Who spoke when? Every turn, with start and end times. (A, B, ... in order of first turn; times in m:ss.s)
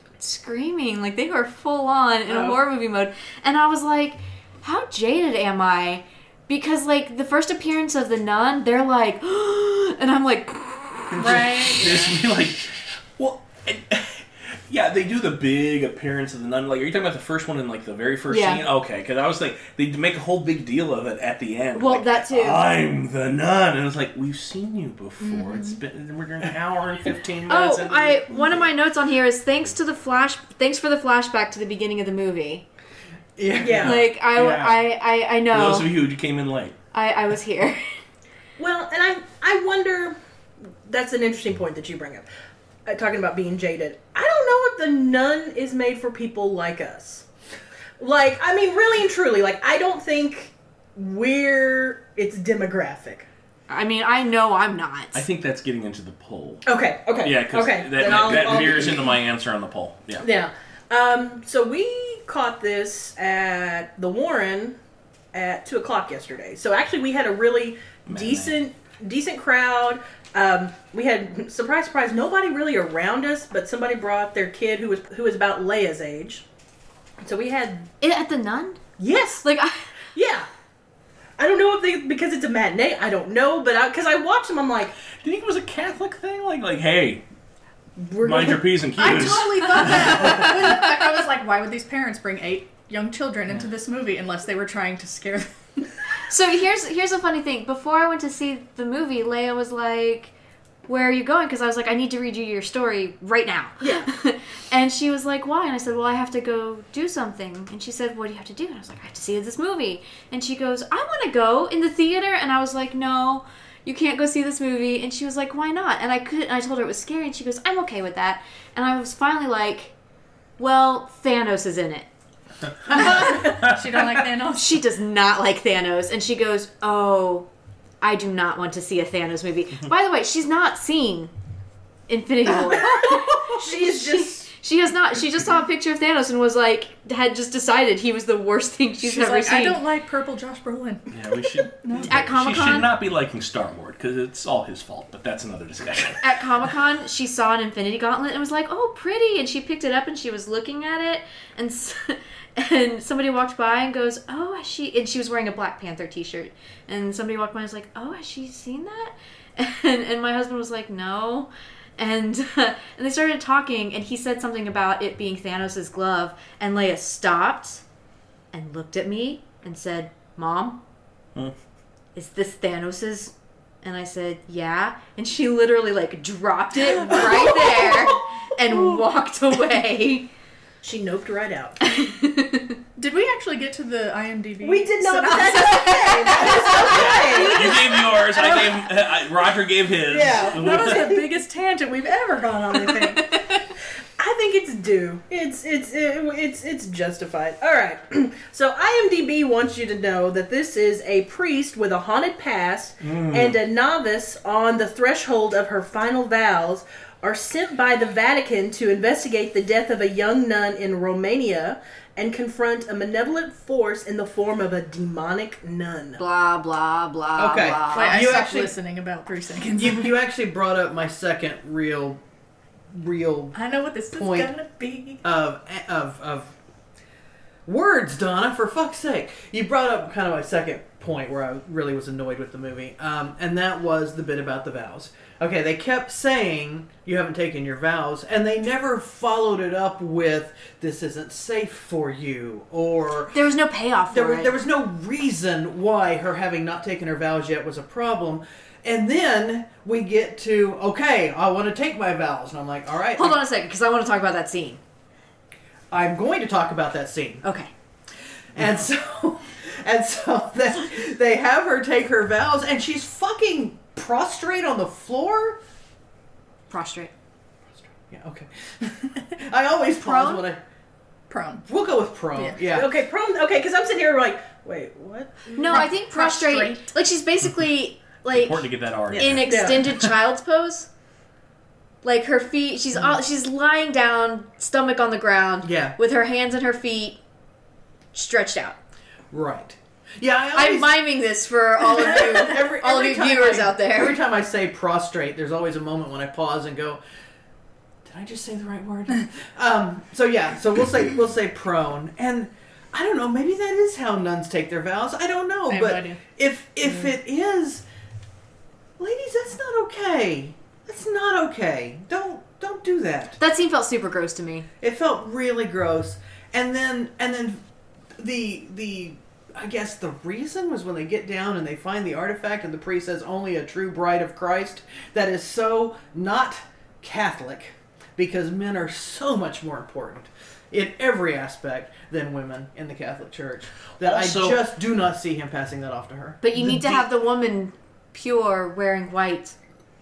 0:00.2-0:11.6 A
0:02.3-0:02.6 B
0:11.1-0:28.7 C
0:11.2-0:12.1 B
0:18.3-0:18.6 A
0:21.7-0:22.6 A
0:25.2-0:25.8 B
0:27.5-0:32.6 A
0:33.4-0:34.0 D
0:33.6-0:34.8 C
0:33.6-0:34.0 E
0:33.8-0:36.0 A
0:35.5-0:36.8 C
0:36.9-0:37.9 A
0:38.6-0:40.2 E
0:40.9-0:42.3 E
0:42.9-0:47.2 E
0:48.0-0:53.3 E
0:53.7-0:55.2 A
0:55.1-1:00.3 C
0:56.6-0:59.2 E
1:00.2-1:04.8 E
1:05.3-1:16.4 E
1:08.1-1:08.6 C
1:17.2-1:17.9 E
1:18.0-1:18.8 A
1:19.0-1:19.5 E
1:19.4-1:19.9 A
1:20.1-1:20.5 E
1:21.4-1:24.9 E
1:25.1-1:27.2 C
1:28.0-1:28.7 E
1:28.2-1:30.5 C
1:29.0-1:35.5 B
1:36.3-1:40.3 A
1:40.9-1:59.9 A
1:43.8-1:44.1 E
2:00.6-2:02.1 A
2:02.9-2:03.4 A
2:02.9-2:04.8 B
2:04.5-2:07.5 A
2:08.0-2:11.3 A
2:12.1-2:19.8 A
2:12.6-2:14.5 E
2:19.0-2:21.1 B
2:21.1-2:26.2 C
2:21.8-2:22.1 B
2:22.1-2:22.9 A
2:26.2-2:47.8 A
2:48.5-2:50.8 A
2:52.1-3:00.3 A
2:57.2-2:58.0 E
3:00.8-3:01.8 E
3:01.8-3:02.8 A
3:03.0-3:07.9 B
3:04.6-3:08.7 E
3:06.9-3:11.0 C
3:10.1-3:11.2 E
3:10.4-3:13.3 B
3:14.2-3:36.2 E
3:23.0-3:23.6 C
3:36.2-3:38.3 A
3:37.4-3:38.8 D
3:37.9-3:40.2 B
3:39.6-3:42.2 D
3:42.9-3:43.6 D
3:43.6-3:45.2 B
3:44.1-3:44.5 D
3:45.2-3:46.5 D
3:47.6-4:03.4 D
4:03.3-4:04.6 A
4:04.1-4:13.4 D
4:13.2-4:14.8 A
4:15.9-4:17.4 D
4:17.4-4:17.7 A
4:18.6-4:25.6 D
4:26.7-4:27.1 A
4:27.9-4:30.6 D
4:30.0-4:30.4 A
4:31.3-4:31.7 B
4:31.7-4:32.9 D
4:32.7-4:35.9 E
4:35.6-4:40.9 A
4:35.7-4:36.8 B
4:38.3-4:40.1 C
4:39.5-4:39.8 E
4:42.0-4:47.2 A
4:45.6-4:46.0 D
4:48.1-4:48.8 A
4:49.3-4:51.1 D
4:50.6-4:54.2 A
4:51.8-4:57.0 D
4:58.0-5:07.8 D
5:05.7-5:06.2 B
5:09.0-5:13.4 D
5:13.4-5:14.6 A
5:14.8-5:17.6 D
5:18.2-5:36.7 D
5:34.0-5:34.6 C
5:36.4-5:39.6 A